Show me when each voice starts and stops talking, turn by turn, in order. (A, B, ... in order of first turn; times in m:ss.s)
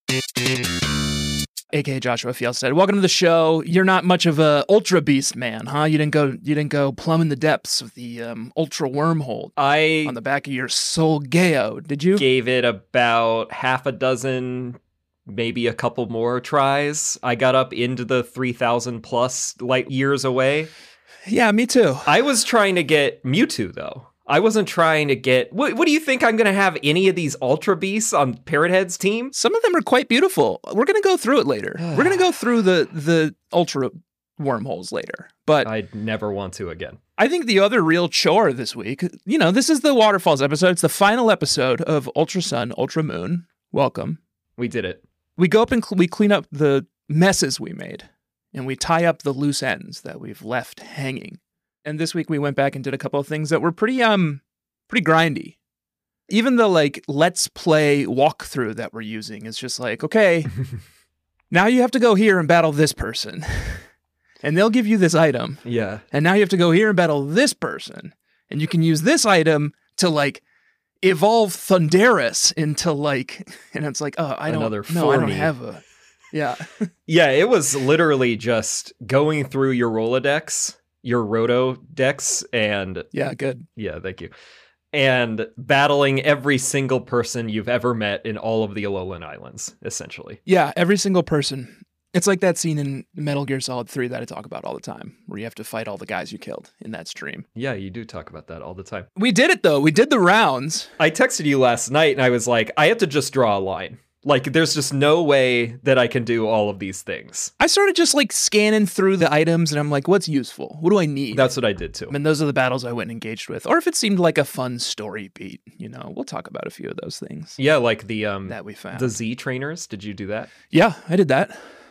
0:01.7-0:12.2 A
0:09.6-0:10.2 B
0:12.2-0:20.7 B
0:21.3-0:22.1 A
0:22.1-0:29.3 B
0:29.3-0:35.7 A
0:31.8-0:32.2 B
0:35.6-0:37.0 B
0:37.2-0:44.2 A
0:44.6-0:45.0 B
0:45.4-0:55.6 A
0:56.3-1:00.5 A
1:01.5-1:03.8 A
1:04.4-1:10.4 A
1:05.6-1:06.0 B
1:11.0-1:16.9 A
1:14.5-1:15.5 B
1:17.1-1:23.1 B
1:23.1-1:23.7 A
1:23.8-1:24.3 B
1:24.9-1:30.4 B
1:30.5-1:37.5 A
1:37.6-1:39.1 B
1:39.2-1:40.9 A
1:41.0-1:47.5 B
1:47.6-1:51.5 A
1:51.3-1:52.2 B
1:52.1-1:57.6 A
1:57.6-2:00.5 B
1:58.5-1:59.2 A
2:00.7-2:01.6 A